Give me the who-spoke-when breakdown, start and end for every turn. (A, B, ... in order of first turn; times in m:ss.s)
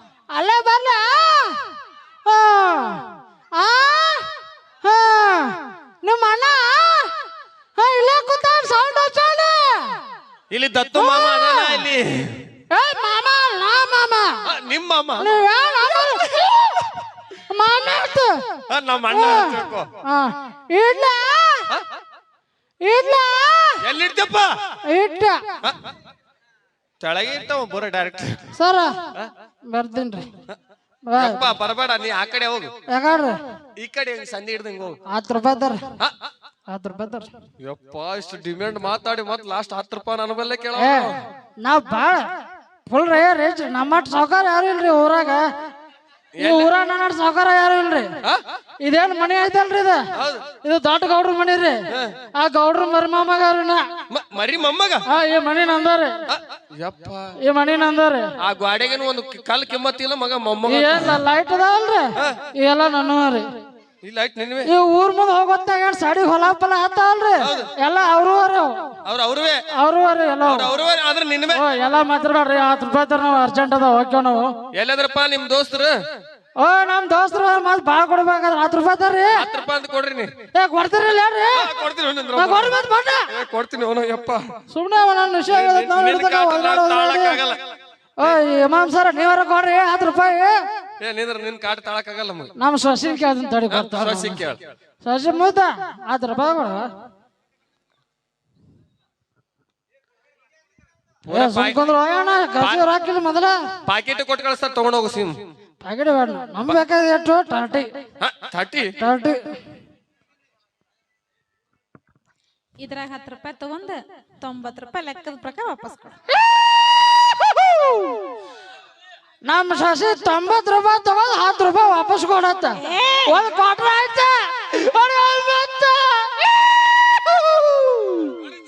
0:00.3-0:01.6 A
0:02.2-0:03.0 A
0:03.6-0:04.2 A
0:04.8-0:07.1 A
0:07.8-0:09.9 A
0:10.5-0:12.4 B
0:10.9-0:11.8 A
0:12.7-0:14.3 A
0:14.4-0:15.4 B
0:15.2-0:16.7 A
0:16.0-0:16.5 B
0:17.5-0:18.3 A
0:18.7-0:19.9 B
0:19.1-0:21.7 A
0:22.8-0:23.8 A
0:23.8-0:24.5 B
0:24.9-0:25.4 A
0:27.0-0:28.5 B
0:28.6-0:28.9 A
0:29.7-0:30.3 A
0:31.1-0:31.5 A
0:31.2-0:32.7 B
0:32.9-0:33.3 A
0:33.8-0:35.0 B
0:35.1-0:35.8 A
0:36.7-0:37.3 A
0:37.6-0:41.2 B
0:40.8-0:41.1 A
0:41.6-0:42.2 A
0:42.9-0:45.4 A
0:46.4-0:46.7 B
0:46.4-0:48.1 A
0:48.8-0:50.0 A
0:50.2-0:50.4 B
0:50.6-0:51.8 A
0:52.4-0:53.8 A
0:54.1-0:55.0 B
0:55.1-0:56.1 A
0:56.3-0:57.3 B
0:57.4-0:58.3 A
0:58.4-1:01.2 B
1:00.6-1:03.4 A
1:04.0-1:04.7 B
1:04.6-1:08.7 A
1:07.4-1:07.7 B
1:09.0-1:09.6 B
1:09.7-1:10.7 A
1:10.4-1:11.6 B
1:11.5-1:14.5 A
1:14.7-1:15.9 B
1:16.6-1:19.4 A
1:19.4-1:20.3 B
1:20.5-1:21.7 A
1:21.6-1:24.4 B
1:22.3-1:23.3 A
1:24.7-1:27.4 A
1:25.5-1:27.6 B
1:28.2-1:30.6 A
1:31.0-1:32.5 B
1:32.6-1:34.4 A
1:33.7-1:34.6 B
1:35.0-1:36.8 A
1:41.2-1:41.9 B
1:41.3-1:43.5 A
1:42.6-1:42.9 B
1:43.8-1:45.4 B
1:45.8-1:47.9 A
1:48.2-1:48.9 B
1:49.0-1:49.4 A
1:52.8-1:56.2 C
1:59.4-2:08.3 A
2:02.8-2:03.4 C